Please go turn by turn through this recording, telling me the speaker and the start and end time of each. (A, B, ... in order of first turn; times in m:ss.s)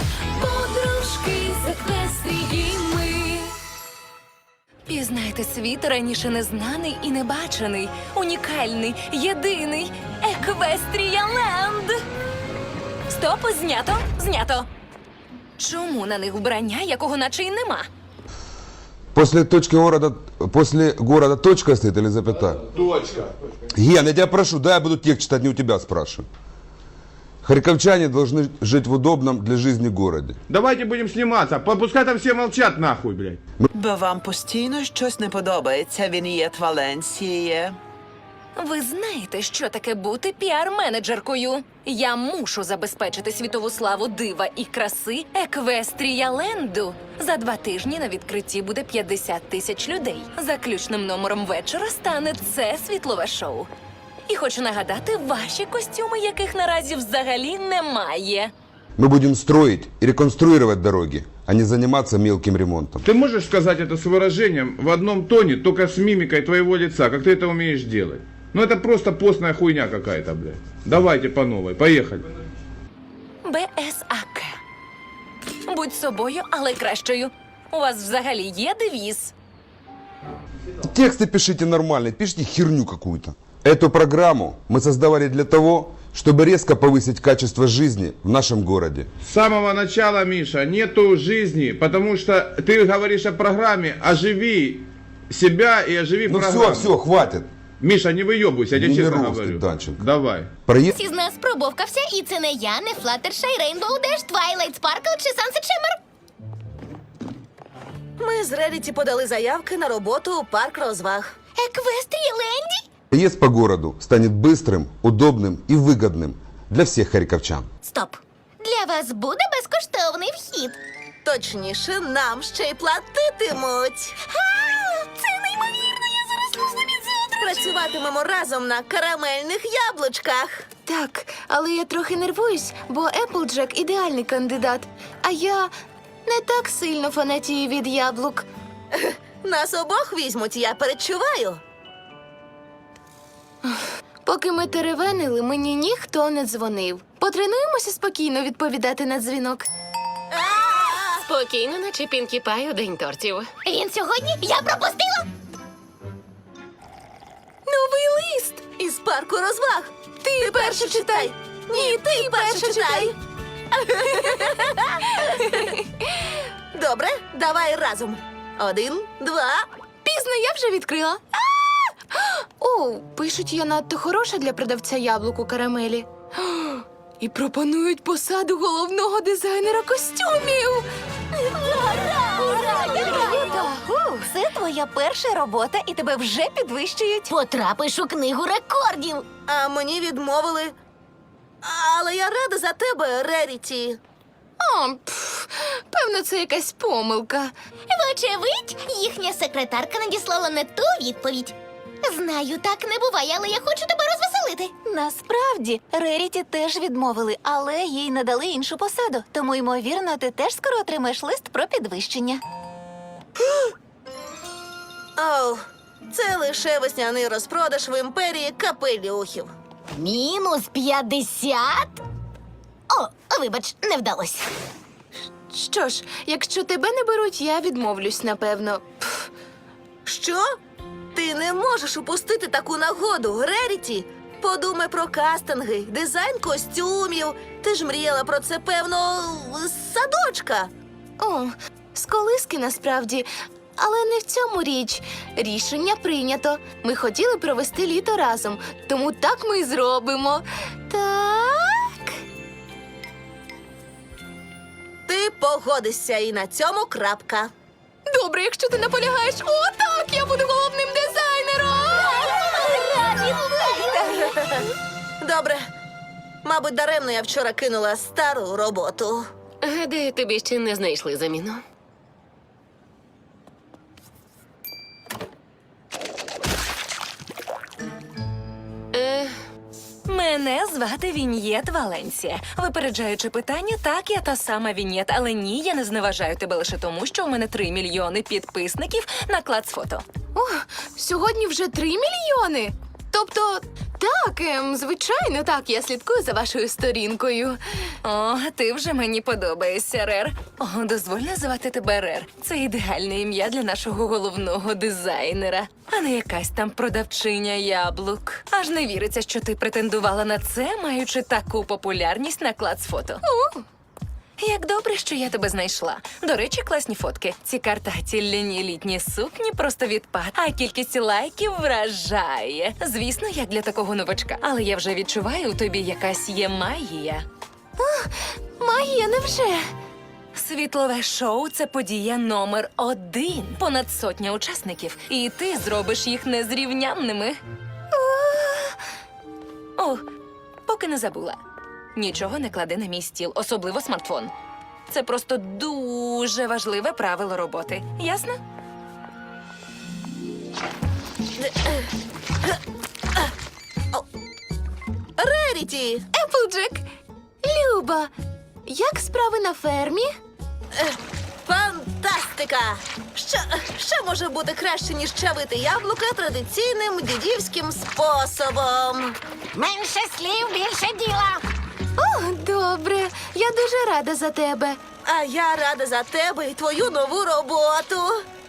0:00.3-0:03.5 A
0:04.9-0:12.0 A
0:13.1-0:14.7 A
0:15.6-0:17.9 A
0:19.1-0:22.6 B
0:22.7-0:23.3 C
0:23.7-0:26.2 B
0:27.4-0:30.4 B
0:30.5-0:33.4 C
0:33.7-0:37.8 D
0:38.6-0:53.7 A
0:54.3-0:58.5 A
0:59.0-1:03.0 B
1:03.0-1:12.2 C
1:13.4-1:14.6 A
1:15.6-1:19.3 A
1:20.8-1:29.1 B
1:29.2-1:36.9 C
1:36.3-1:37.5 B
1:37.8-1:40.5 C
1:38.7-1:40.0 B
1:40.7-1:40.9 B
1:40.9-1:46.0 E
1:48.2-1:51.3 F
1:51.6-1:52.8 E
1:53.1-1:57.7 B
1:57.9-2:00.7 E
2:01.2-2:04.1 F
2:04.6-2:07.5 E
2:07.4-2:10.6 F
2:10.8-2:15.7 G
2:16.2-2:18.4 G
2:19.0-2:21.6 F
2:23.6-2:29.6 G
2:30.3-2:31.2 F
2:31.2-2:33.6 H
2:33.6-2:35.2 E
2:37.6-2:38.6 G
2:38.8-2:43.1 F
2:40.2-2:43.1 G
2:43.7-2:45.6 F
2:45.3-2:46.3 G
2:46.7-2:49.7 F
2:50.0-3:04.1 G
3:02.4-3:03.7 E
3:07.3-3:09.3 E
3:09.5-3:10.7 F
3:11.6-3:14.0 F
3:14.6-3:17.5 G
3:17.9-3:24.7 E
3:24.9-3:27.9 I
3:28.4-3:32.4 I
3:35.2-3:39.5 F
3:39.9-3:42.0 E
3:42.9-3:44.5 E
3:45.5-3:49.2 G
3:50.0-3:50.4 F
3:51.1-4:00.7 F
4:01.2-4:12.1 G
4:15.1-4:17.5 F
4:18.1-4:24.4 G
4:25.2-4:25.6 F
4:26.4-4:29.2 F
4:29.6-4:31.6 H
4:38.9-4:39.3 H
4:40.0-4:50.0 A
4:50.3-4:57.8 G
4:58.0-5:13.2 A
5:13.2-5:13.6 G
5:14.4-5:27.2 A
5:27.8-5:29.7 G
5:30.3-5:37.4 A
5:37.9-5:38.4 G
5:38.4-5:38.6 A
5:39.8-5:40.0 A
5:40.6-5:41.4 A
5:41.9-5:44.3 A
5:44.9-5:48.4 A
5:51.4-5:51.9 F
5:55.2-5:56.0 F
5:56.1-5:56.8 G
5:57.4-5:58.1 G
5:58.6-6:00.1 G
6:00.7-6:09.2 F
6:09.5-6:11.4 E
6:12.0-6:14.8 G
6:15.0-6:18.2 F